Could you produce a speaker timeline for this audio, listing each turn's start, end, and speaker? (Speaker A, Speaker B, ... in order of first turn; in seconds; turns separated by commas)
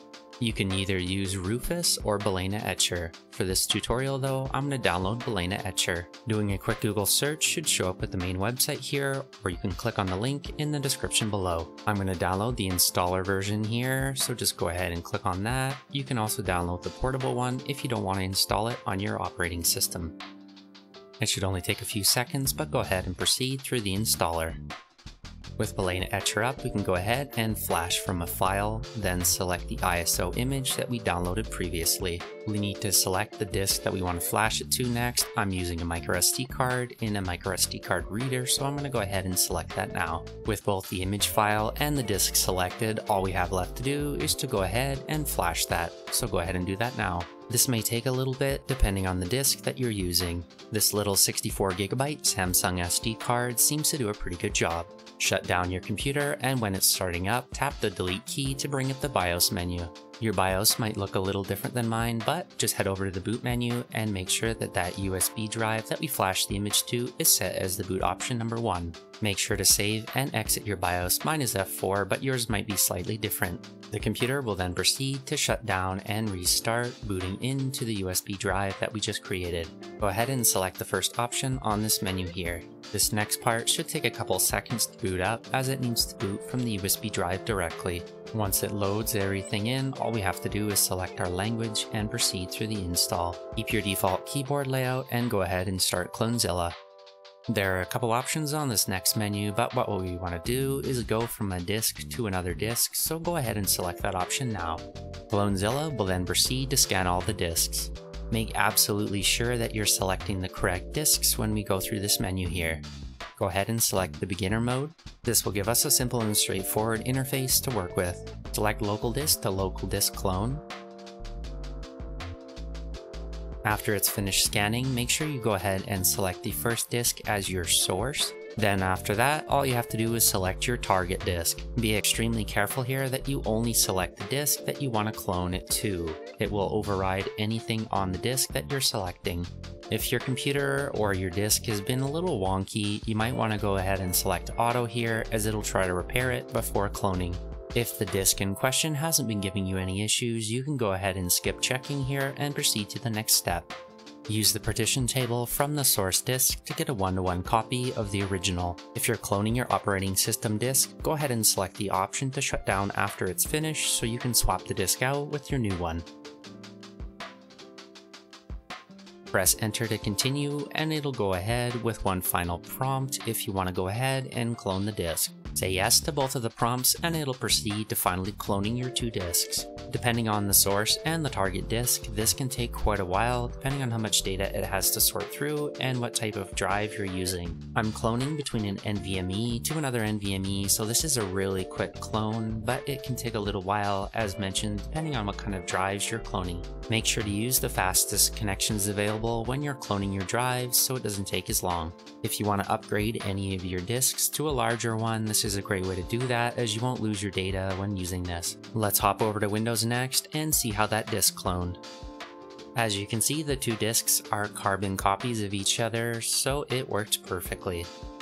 Speaker A: 0.4-20.2, Speaker A: 21.2-24.6, Speaker A: 25.6-96.8, Speaker A: 97.5-112.8, Speaker A: 113.4-120.6, Speaker A: 123.6-153.7, Speaker A: 154.3-166.1, Speaker A: 169.3-211.8, Speaker A: 212.7-217.9